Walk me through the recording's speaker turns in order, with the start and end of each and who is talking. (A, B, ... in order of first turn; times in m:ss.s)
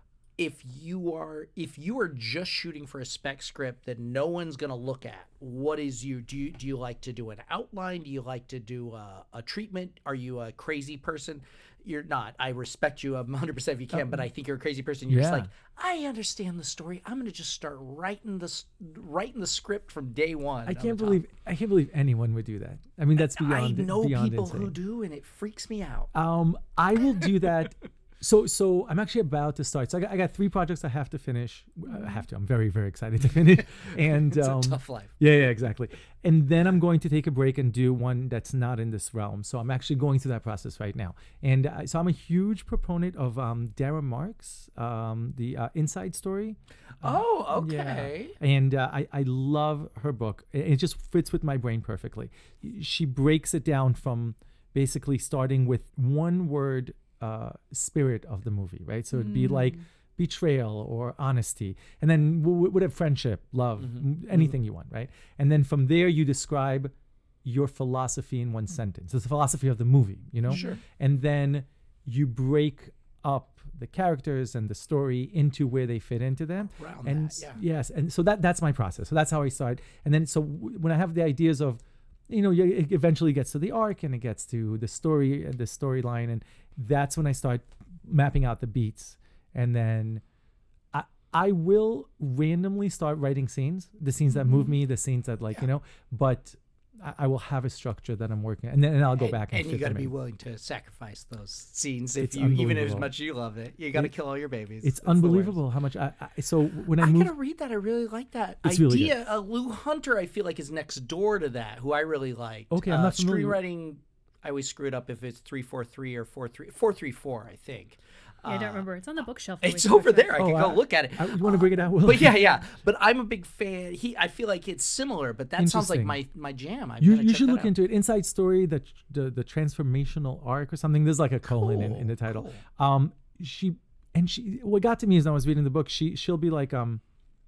0:00.4-0:21.2 A
0:13.9-0:14.3 B
0:15.1-0:15.5 B
0:20.6-0:24.7 B
0:23.2-0:26.1 A
0:26.1-1:30.2 B
0:33.6-0:35.1 A
0:47.0-0:48.3 A
0:59.1-0:59.8 C
1:03.8-1:04.5 A
1:10.5-1:10.8 A
1:10.5-1:10.8 C
1:16.7-1:17.6 A
1:30.9-1:40.1 B
1:34.3-1:34.7 C
1:39.2-1:45.6 A
1:42.2-1:43.1 B
1:44.8-1:47.3 B
1:47.0-1:58.8 A
1:48.6-1:49.3 B
1:52.7-1:53.6 B
1:58.4-2:00.4 C
1:59.6-2:07.7 A
2:00.3-2:02.5 B
2:05.6-2:06.2 B
2:07.0-2:17.0 B
2:11.5-2:12.6 A